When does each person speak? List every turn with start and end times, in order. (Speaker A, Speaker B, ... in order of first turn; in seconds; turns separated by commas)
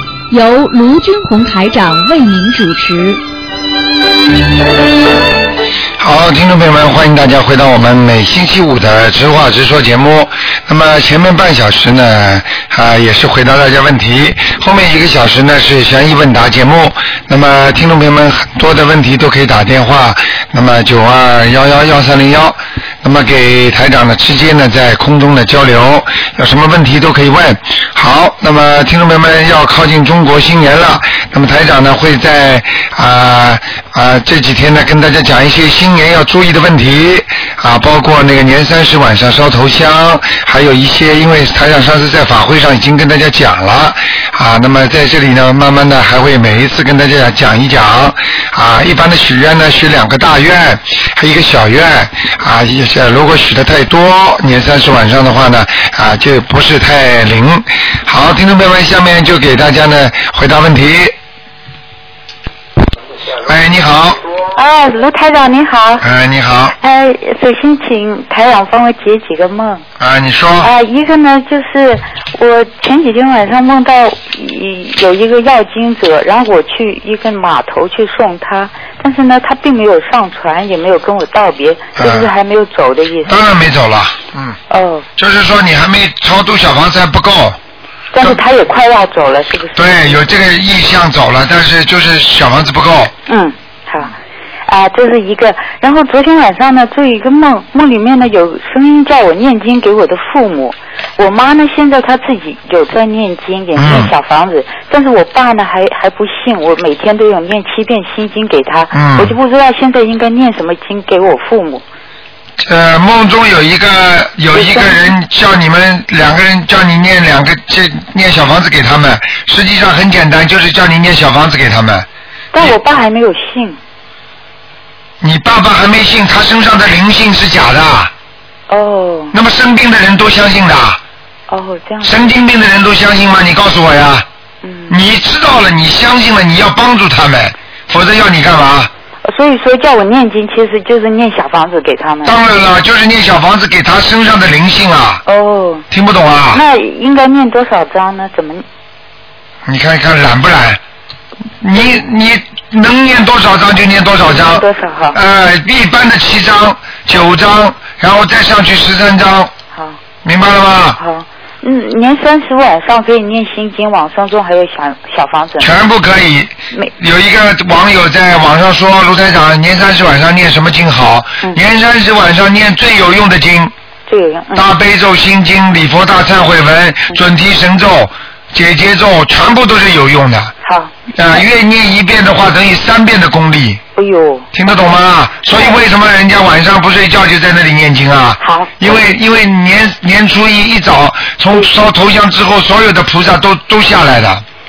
Speaker A: 0.3-3.2, Speaker B: 6.0-61.1, Speaker B: 63.4-64.2, Speaker C: 64.5-66.0, Speaker B: 66.0-66.8, Speaker C: 66.8-69.8, Speaker B: 70.0-70.7, Speaker C: 70.6-83.4, Speaker B: 82.0-82.3, Speaker B: 83.3-84.6, Speaker C: 84.7-85.0, Speaker B: 85.2-87.6, Speaker C: 88.1-90.2, Speaker B: 89.7-93.1, Speaker C: 93.3-94.1, Speaker C: 94.7-111.8, Speaker B: 103.8-104.1, Speaker B: 108.9-109.3, Speaker B: 112.6-122.1, Speaker C: 114.5-115.0, Speaker C: 122.5-123.8, Speaker B: 125.2-128.1, Speaker C: 128.7-129.3, Speaker B: 129.3-131.0, Speaker C: 131.5-132.3, Speaker B: 132.0-134.2, Speaker C: 134.6-135.0, Speaker B: 134.9-138.9, Speaker C: 139.2-142.4, Speaker B: 142.2-145.2, Speaker C: 145.2-145.8, Speaker B: 145.9-146.6, Speaker C: 146.5-148.6, Speaker B: 149.7-150.8, Speaker B: 151.6-159.5, Speaker C: 154.3-155.2, Speaker B: 160.2-161.0, Speaker C: 161.0-165.7, Speaker B: 165.6-173.7, Speaker C: 174.1-174.7, Speaker B: 174.5-180.5, Speaker C: 180.6-180.9, Speaker B: 181.1-183.8, Speaker C: 183.9-184.5, Speaker B: 184.5-194.4, Speaker C: 188.4-188.8